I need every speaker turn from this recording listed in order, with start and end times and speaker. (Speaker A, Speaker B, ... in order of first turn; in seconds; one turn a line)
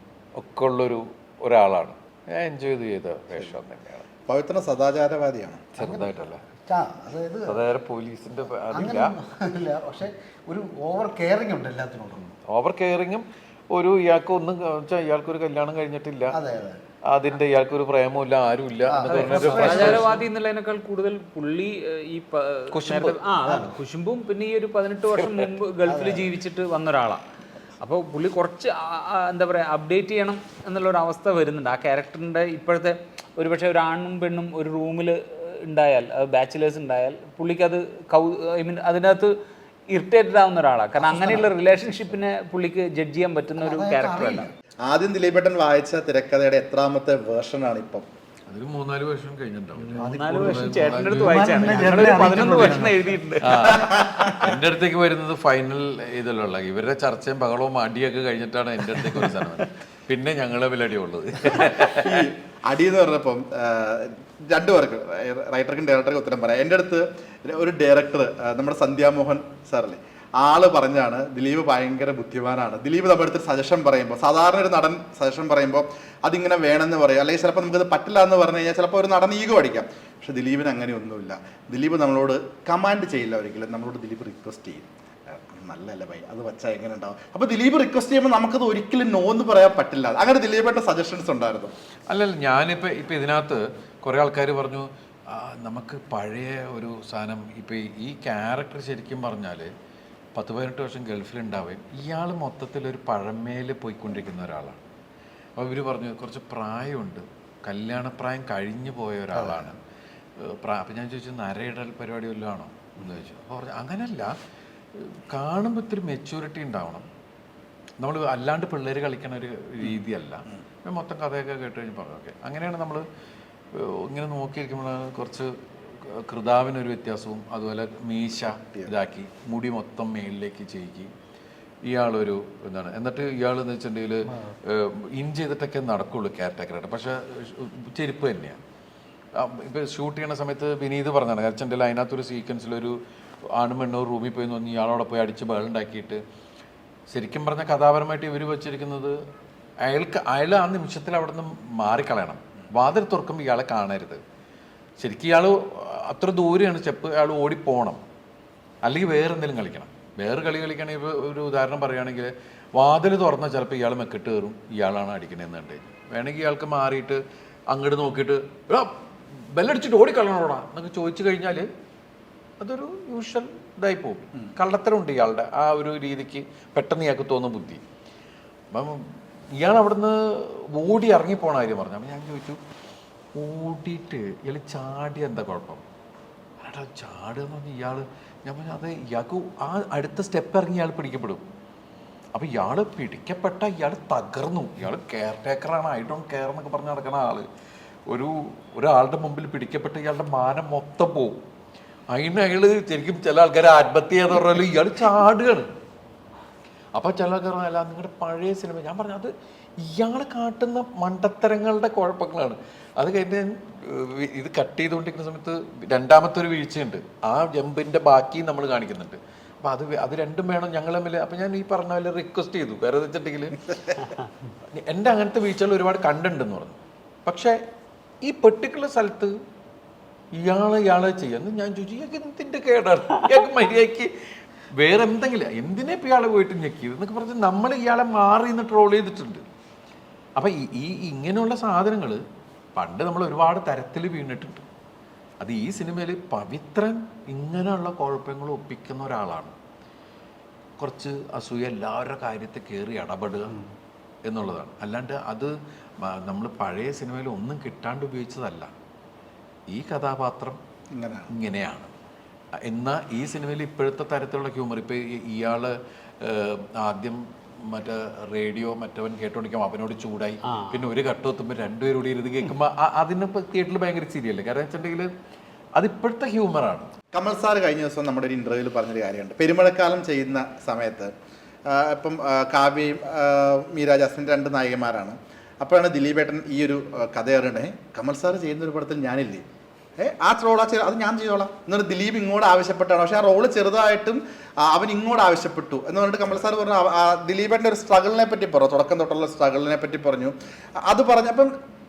Speaker A: 0.4-4.1
Speaker B: 4.3-5.7
Speaker A: 5.8-6.4
Speaker C: 5.8-6.1
Speaker C: 6.7-7.6
Speaker A: 7.5-9.2
Speaker C: 8.7-12.2
Speaker A: 12.2-16.4
Speaker C: 16.3-16.8
Speaker A: 17.1-20.2
Speaker C: 18.9-20.2
Speaker D: 19.1-27.2
Speaker A: 22.7-23.2
Speaker C: 23.4-23.8
Speaker A: 25.1-25.6
Speaker C: 25.9-26.3
Speaker D: 27.8-39.3
Speaker D: 39.9-44.5
Speaker C: 41.0-41.5
Speaker C: 43.6-44.5
Speaker B: 44.9-48.1
Speaker A: 48.5-62.3
Speaker C: 49.9-53.2
Speaker D: 50.1-53.6
Speaker B: 53.6-54.5
Speaker B: 61.7-91.7
Speaker A: 92.1-99.7
Speaker A: 100.3-104.8
Speaker A: 105.6-109.8
Speaker C: 109.3-109.8
Speaker A: 110.4-114.3
Speaker A: 115.0-117.1
Speaker A: 118.0-123.0
Speaker A: 123.7-131.1
Speaker A: 131.8-138.6
Speaker A: 139.4-143.0
Speaker A: 143.5-146.2
Speaker A: 147.1-149.2
Speaker A: 149.8-154.2
Speaker A: 155.0-158.0
Speaker A: 158.8-167.2
Speaker A: 167.7-171.7
Speaker A: 172.6-177.8
Speaker A: 178.7-182.6
Speaker A: 183.4-185.8
Speaker A: 186.6-191.5
Speaker A: 192.3-197.5
Speaker A: 198.1-201.4
Speaker A: 202.1-205.7
Speaker A: 206.9-224.1
Speaker A: 224.8-227.6
Speaker A: 228.2-229.3
Speaker A: 230.3-234.1
Speaker A: 234.8-239.5
Speaker A: 240.4-242.2
Speaker A: 242.8-244.7
Speaker A: 245.4-249.6
Speaker A: 250.8-253.6
Speaker A: 254.3-258.7
Speaker A: 259.7-260.6
Speaker B: 260.9-261.3
Speaker A: 261.4-261.9
Speaker A: 262.6-275.1
Speaker D: 270.5-270.9
Speaker A: 275.8-276.9
Speaker B: 277.1-281.1
Speaker B: 281.7-289.4
Speaker B: 290.0-301.5